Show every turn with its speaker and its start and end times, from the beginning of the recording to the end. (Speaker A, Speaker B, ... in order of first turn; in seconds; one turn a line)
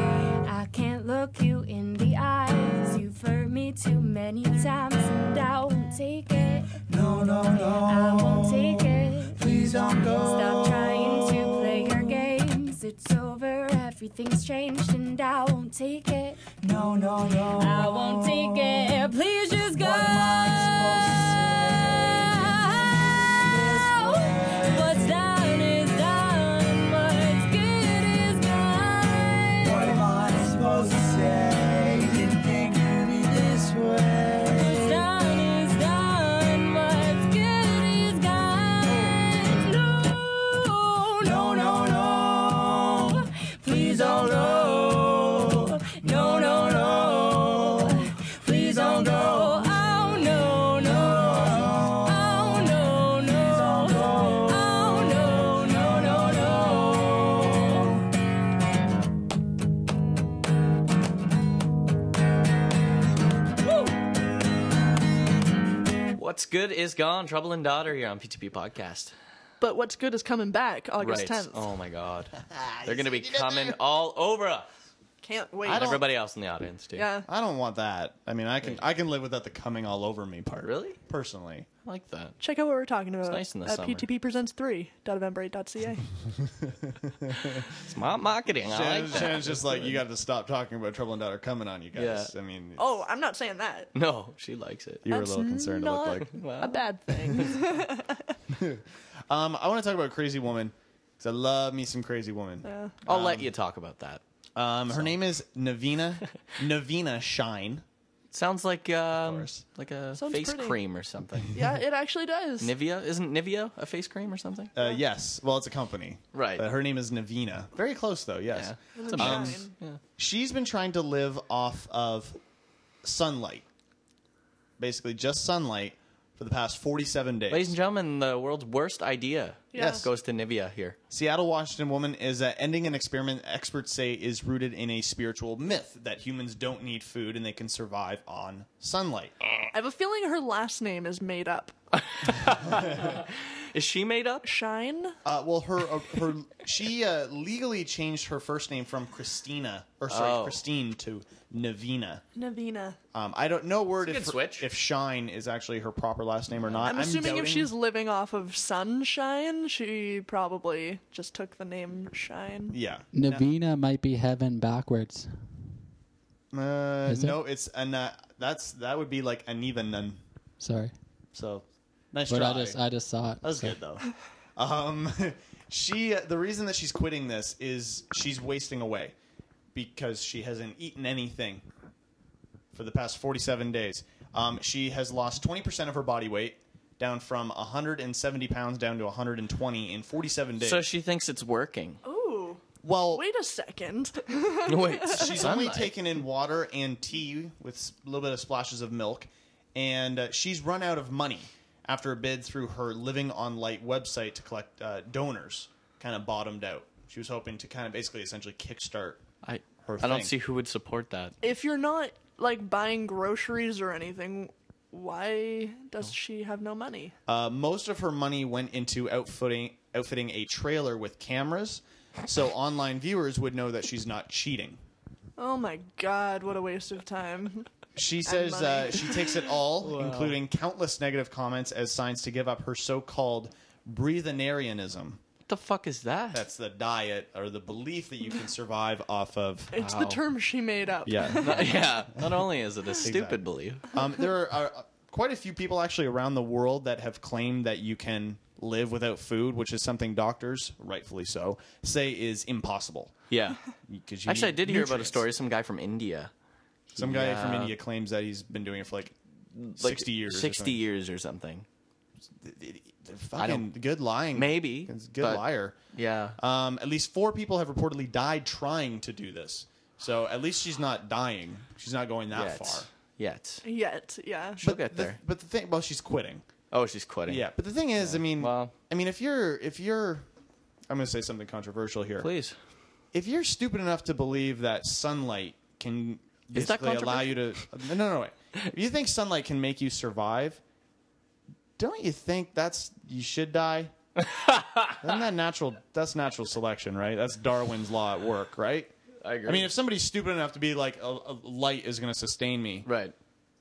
Speaker A: 0.4-6.8
Speaker B: 6.9-8.8
Speaker A: 7.5-16.5
Speaker B: 9.4-12.1
Speaker B: 16.6-18.8
Speaker A: 17.5-30.0
Speaker B: 19.8-24.9
Speaker B: 29.6-34.9
Speaker A: 34.5-42.0
Speaker B: 41.2-43.1
Speaker A: 43.0-57.9
Speaker B: 44.0-45.5
Speaker B: 51.2-52.0
Speaker B: 53.6-54.4
Speaker C: 66.1-69.1
Speaker D: 69.6-71.7
Speaker C: 71.0-74.7
Speaker E: 72.6-73.7
Speaker D: 75.2-76.0
Speaker E: 75.6-76.0
Speaker C: 75.6-77.1
Speaker D: 76.9-77.3
Speaker E: 77.3-81.7
Speaker C: 80.6-81.0
Speaker C: 81.8-82.4
Speaker D: 82.4-86.1
Speaker C: 83.2-84.1
Speaker E: 86.6-87.3
Speaker C: 87.7-90.0
Speaker E: 88.6-93.0
Speaker C: 92.0-92.3
Speaker D: 92.8-93.9
Speaker C: 93.9-95.0
Speaker E: 95.0-96.3
Speaker D: 95.1-98.2
Speaker C: 96.3-97.6
Speaker E: 98.5-103.5
Speaker D: 102.6-103.0
Speaker C: 103.0-104.2
Speaker E: 104.5-107.8
Speaker C: 104.9-105.2
Speaker C: 108.3-111.6
Speaker E: 109.1-109.6
Speaker D: 110.1-110.8
Speaker D: 111.5-112.7
Speaker C: 112.6-114.7
Speaker E: 114.7-119.6
Speaker C: 116.3-116.6
Speaker C: 118.5-120.0
Speaker D: 118.9-119.7
Speaker E: 120.2-122.4
Speaker E: 123.0-123.6
Speaker E: 124.8-127.8
Speaker C: 127.5-131.0
Speaker D: 129.7-130.0
Speaker E: 129.8-130.0
Speaker E: 131.1-139.3
Speaker D: 139.7-141.7
Speaker C: 142.2-144.4
Speaker D: 144.4-145.2
Speaker E: 145.2-152.2
Speaker C: 150.1-150.6
Speaker D: 152.3-153.0
Speaker E: 153.1-157.7
Speaker C: 154.0-154.7
Speaker C: 156.6-157.4
Speaker D: 156.8-162.8
Speaker E: 162.7-163.4
Speaker F: 163.1-165.3
Speaker E: 166.5-170.2
Speaker F: 167.1-167.4
Speaker F: 170.6-170.9
Speaker E: 171.3-172.8
Speaker F: 172.3-173.8
Speaker E: 173.4-174.0
Speaker E: 174.6-179.1
Speaker E: 179.7-181.6
Speaker E: 182.7-190.9
Speaker C: 190.6-192.0
Speaker D: 192.0-195.4
Speaker E: 192.8-193.2
Speaker C: 194.7-195.9
Speaker E: 195.1-209.2
Speaker C: 209.4-211.3
Speaker E: 209.8-210.3
Speaker D: 211.4-217.1
Speaker E: 217.3-224.8
Speaker D: 225.4-227.7
Speaker E: 227.9-235.2
Speaker D: 228.2-229.5
Speaker C: 229.8-230.4
Speaker C: 235.5-236.4
Speaker E: 236.3-239.7
Speaker D: 239.7-241.8
Speaker C: 239.7-240.2
Speaker E: 241.0-242.2
Speaker C: 241.3-243.9
Speaker E: 243.0-243.4
Speaker E: 243.9-253.1
Speaker C: 253.3-253.6
Speaker E: 253.9-255.2
Speaker C: 254.2-256.3
Speaker C: 256.9-257.8
Speaker E: 256.9-259.1
Speaker C: 259.5-261.6
Speaker E: 259.8-260.8
Speaker E: 262.4-265.8
Speaker C: 263.4-263.7
Speaker C: 264.3-266.4
Speaker E: 266.4-272.9
Speaker C: 272.3-273.6
Speaker D: 273.6-274.6
Speaker C: 274.6-275.2
Speaker E: 274.6-276.4
Speaker C: 276.7-278.7
Speaker E: 277.3-280.2
Speaker E: 280.9-282.3
Speaker C: 282.2-282.5
Speaker E: 283.1-290.6
Speaker C: 286.5-287.6
Speaker E: 291.8-293.9
Speaker C: 294.2-295.0
Speaker E: 295.0-298.9
Speaker C: 299.2-299.7
Speaker E: 299.4-302.9
Speaker C: 302.8-303.1